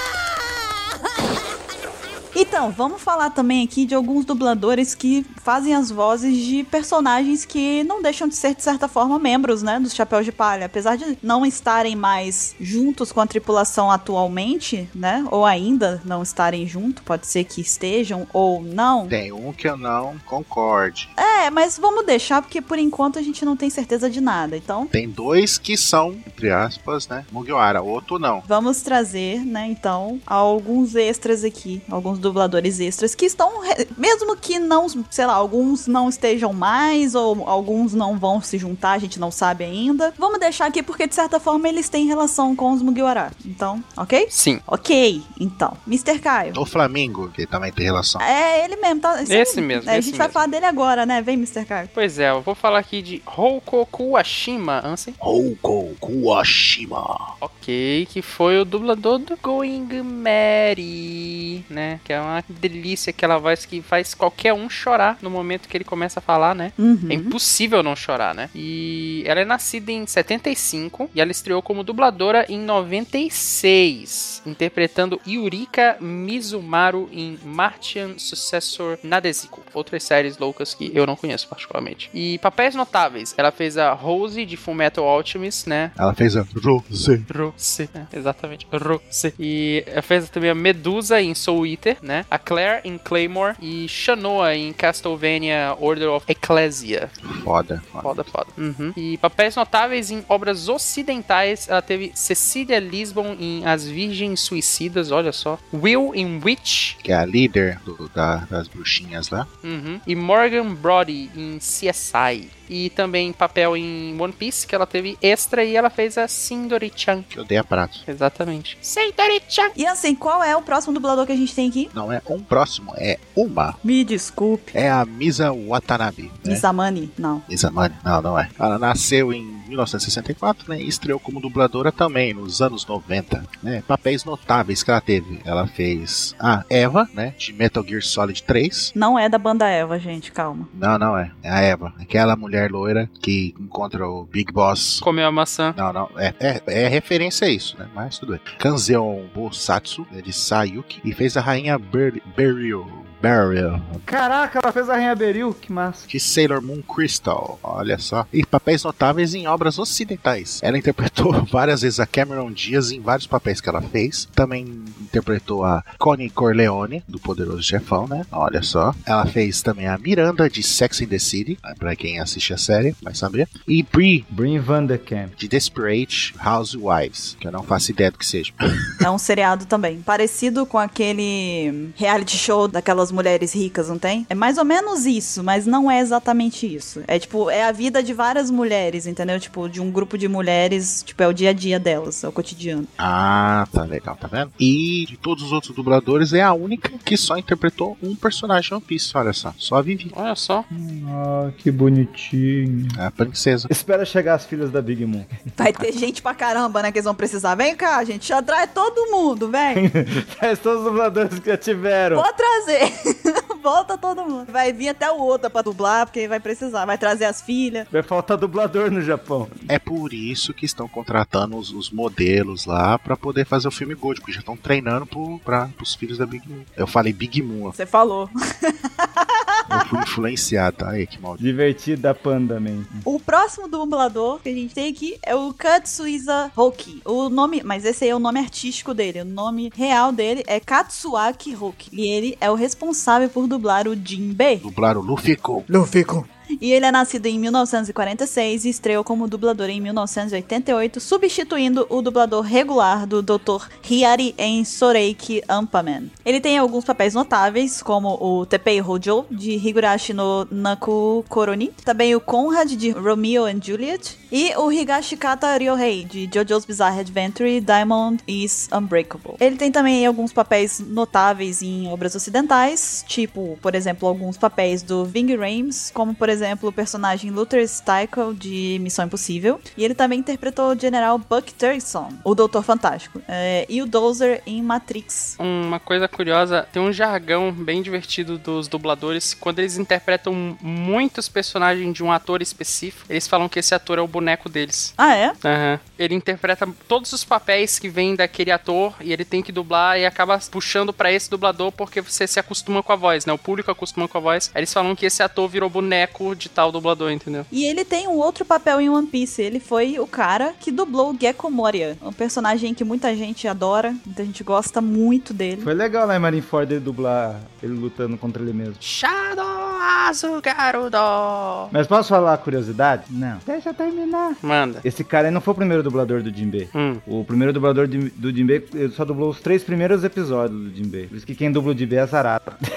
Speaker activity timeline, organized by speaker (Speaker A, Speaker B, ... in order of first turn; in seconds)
Speaker A: 2.3-19.1, 21.2-24.9, 28.4-46.6, 48.2-51.9, 66.8-67.3, 119.8-121.9, 123.8-124.8, 126.4-127.4, 138.9-140.7, 179.0-192.9, 205.6-209.8, 212.1-217.9, 227.7-229.7, 233.1-244.7, 246.6-285.4, 295.0-295.4, 307.5-315.7
Speaker B: 19.1-21.1, 24.9-28.5, 46.5-48.2, 55.2-57.3, 86.0-87.3, 97.2-98.3, 107.0-109.5, 117.3-118.0, 121.9-123.8, 124.7-126.7, 127.5-138.9, 140.7-145.1, 145.7-154.0, 156.1-174.3, 175.4-179.0, 193.0-200.1, 203.0-203.7, 219.7-227.7, 229.7-231.4, 244.6-245.7
Speaker C: 44.3-44.6, 49.2-50.4, 52.0-55.2, 57.4-85.9, 87.3-97.1, 98.0-107.0, 109.6-117.3, 118.1-119.7, 145.0-145.8, 200.1-200.7, 285.4-307.5, 318.8-321.7, 324.4-324.8, 326.7-327.0
Speaker D: 154.1-156.1, 174.3-175.3, 200.7-203.0, 203.7-205.3, 209.7-212.3, 217.9-219.6, 231.4-233.1, 315.6-318.8, 321.7-332.6